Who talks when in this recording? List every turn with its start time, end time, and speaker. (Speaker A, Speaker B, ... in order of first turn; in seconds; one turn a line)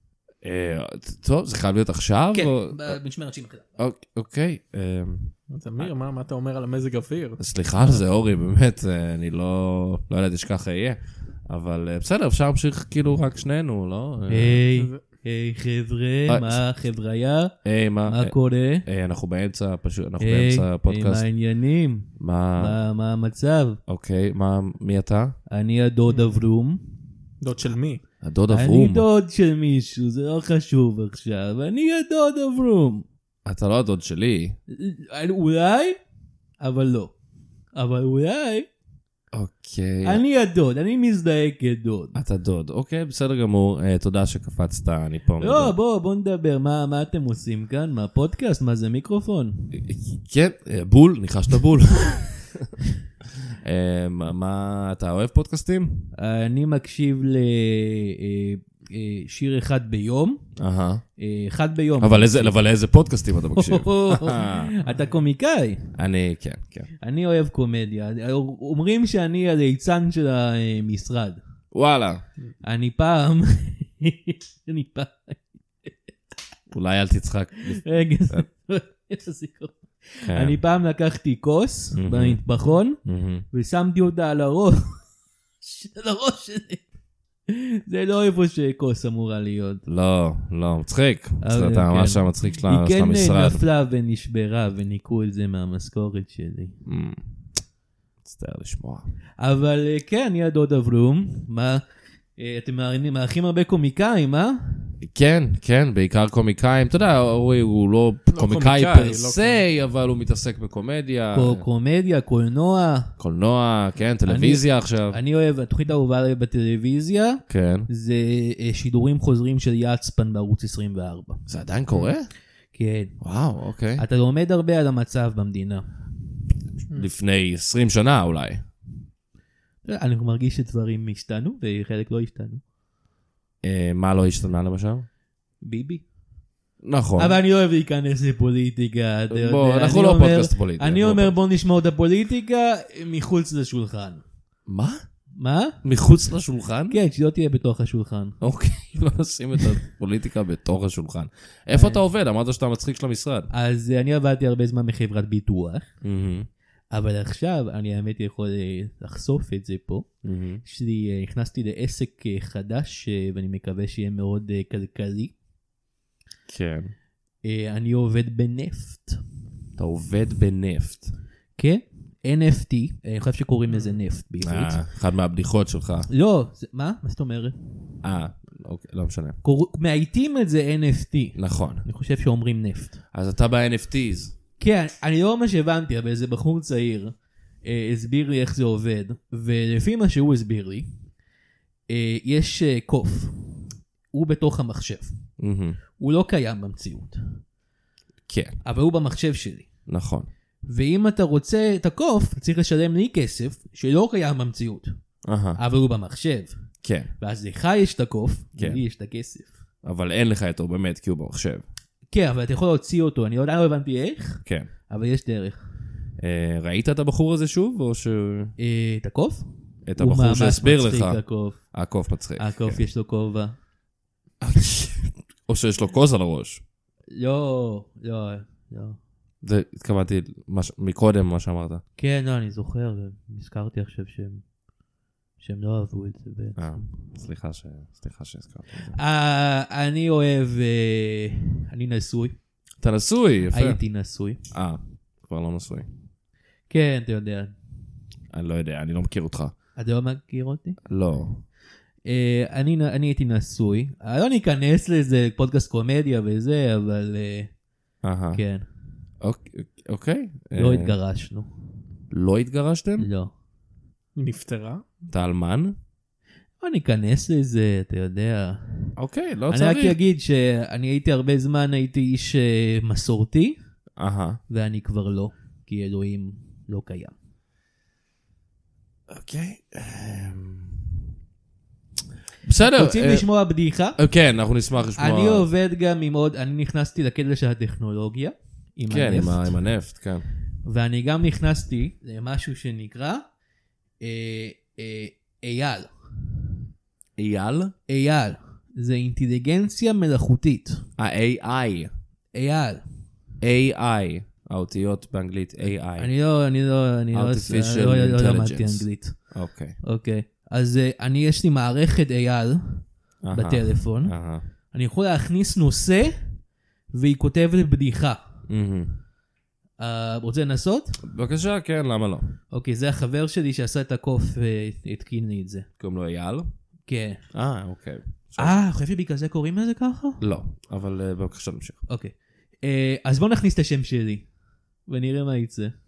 Speaker A: 0.4-3.0
Speaker B: 2.3-3.7
Speaker A: 3.8-5.9
Speaker C: 5.5-8.0
Speaker A: 7.4-14.6
Speaker B: 14.3-17.6
Speaker A: 16.3-16.6
Speaker A: 17.6-21.2
Speaker B: 18.1-18.8
Speaker B: 20.2-23.8
Speaker A: 22.2-22.8
Speaker A: 23.9-25.4
Speaker B: 25.5-27.0
Speaker C: 26.1-26.4
Speaker C: 27.4-28.0
Speaker A: 28.2-29.1
Speaker B: 28.5-33.0
Speaker A: 33.5-34.6
Speaker B: 34.7-36.0
Speaker B: 36.6-37.1
Speaker B: 37.7-38.7
Speaker A: 39.3-40.2
Speaker B: 40.0-42.2
Speaker A: 42.1-45.7
Speaker B: 45.4-49.8
Speaker A: 49.7-52.7
Speaker A: 53.6-56.1
Speaker B: 56.1-60.4
Speaker A: 60.6-61.0
Speaker B: 61.2-62.6
Speaker A: 62.0-64.7
Speaker B: 63.5-65.9
Speaker A: 66.0-66.9
Speaker B: 67.0-71.4
Speaker A: 71.7-72.2
Speaker B: 72.6-75.9
Speaker A: 76.7-78.4
Speaker B: 77.7-83.0
Speaker A: 80.3-80.6
Speaker A: 82.0-82.4
Speaker A: 83.0-83.4
Speaker B: 83.5-85.0
Speaker B: 85.6-86.9
Speaker B: 87.5-89.8
Speaker A: 89.9-93.6
Speaker B: 91.4-96.8
Speaker A: 96.9-97.2
Speaker A: 98.2-99.0
Speaker B: 99.4-101.8
Speaker B: 102.4-105.0
Speaker A: 105.0-111.6
Speaker C: 108.3-109.6
Speaker B: 111.3-113.1
Speaker A: 113.2-115.2
Speaker B: 114.3-121.4
Speaker A: 117.5-117.9
Speaker A: 121.5-122.3
Speaker B: 122.7-123.2
Speaker A: 123.2-124.0
Speaker B: 124.0-125.9
Speaker A: 126.9-128.6
Speaker B: 129.8-132.6
Speaker A: 133.6-135.1
Speaker B: 135.6-136.0
Speaker A: 136.8-137.4
Speaker B: 137.2-144.2
Speaker A: 139.3-141.4
Speaker A: 144.7-145.0
Speaker B: 145.4-145.8
Speaker A: 145.8-147.0
Speaker B: 146.9-148.4
Speaker A: 148.4-153.5
Speaker B: 151.7-152.0
Speaker B: 153.5-155.9
Speaker A: 156.0-156.5
Speaker B: 156.9-160.1
Speaker A: 160.2-160.6
Speaker B: 160.6-165.3
Speaker A: 166.5-166.9
Speaker B: 167.4-169.2
Speaker A: 169.8-171.1
Speaker B: 171.6-174.8
Speaker C: 173.7-174.0
Speaker A: 174.4-176.1
Speaker B: 176.1-177.6
Speaker A: 178.0-179.4
Speaker B: 179.4-183.0
Speaker A: 181.4-181.8
Speaker A: 183.1-184.3
Speaker B: 184.6-190.9
Speaker B: 191.9-195.2
Speaker A: 195.4-195.8
Speaker B: 196.0-197.4
Speaker A: 198.3-198.6
Speaker B: 198.6-199.7
Speaker A: 199.9-200.3
Speaker B: 200.6-204.9
Speaker A: 205.2-205.6
Speaker B: 205.6-206.6
Speaker A: 206.8-207.1
Speaker B: 207.2-209.6
Speaker A: 208.6-208.8
Speaker A: 209.8-211.6
Speaker B: 212.1-215.6
Speaker A: 216.2-218.6
Speaker B: 218.6-219.4
Speaker A: 219.9-222.8
Speaker B: 220.0-221.7
Speaker B: 222.4-223.6
Speaker A: 224.4-226.6
Speaker B: 227.1-229.0
Speaker A: 229.4-231.8
Speaker B: 232.0-234.4
Speaker B: 235.4-237.0
Speaker A: 236.6-239.0
Speaker B: 238.9-242.4
Speaker A: 242.8-243.8
Speaker B: 243.5-244.4
Speaker A: 244.5-245.9
Speaker B: 246.7-247.5
Speaker A: 248.3-249.5
Speaker B: 249.8-250.8
Speaker A: 250.9-251.4
Speaker B: 252.1-257.5
Speaker A: 258.0-258.4
Speaker B: 258.3-258.7
Speaker A: 259.2-260.9
Speaker B: 260.6-261.5
Speaker A: 262.1-263.1
Speaker B: 263.0-263.3
Speaker C: 264.2-264.8
Speaker A: 265.1-265.7
Speaker B: 266.6-268.9
Speaker A: 269.0-270.0
Speaker B: 269.5-273.6
Speaker A: 274.0-274.4
Speaker B: 274.5-277.1
Speaker A: 279.1-280.8
Speaker A: 282.4-283.3
Speaker B: 282.7-284.0
Speaker A: 283.9-285.4
Speaker B: 285.0-289.7
Speaker A: 288.9-290.2
Speaker B: 290.6-293.2
Speaker B: 294.0-295.9
Speaker A: 297.2-297.7
Speaker B: 297.9-300.9
Speaker A: 301.0-301.9
Speaker B: 302.3-302.9
Speaker A: 303.4-306.1
Speaker B: 306.0-309.2
Speaker A: 307.1-309.8
Speaker B: 309.8-314.2
Speaker A: 313.2-314.4
Speaker B: 314.7-316.3
Speaker B: 316.9-318.2
Speaker A: 318.5-319.0
Speaker B: 319.8-321.0
Speaker A: 321.1-322.3
Speaker B: 322.5-325.7
Speaker A: 325.8-326.5
Speaker B: 326.9-327.2
Speaker A: 327.3-328.6
Speaker B: 328.4-330.2
Speaker A: 330.2-331.8
Speaker B: 331.9-334.3
Speaker B: 334.9-335.7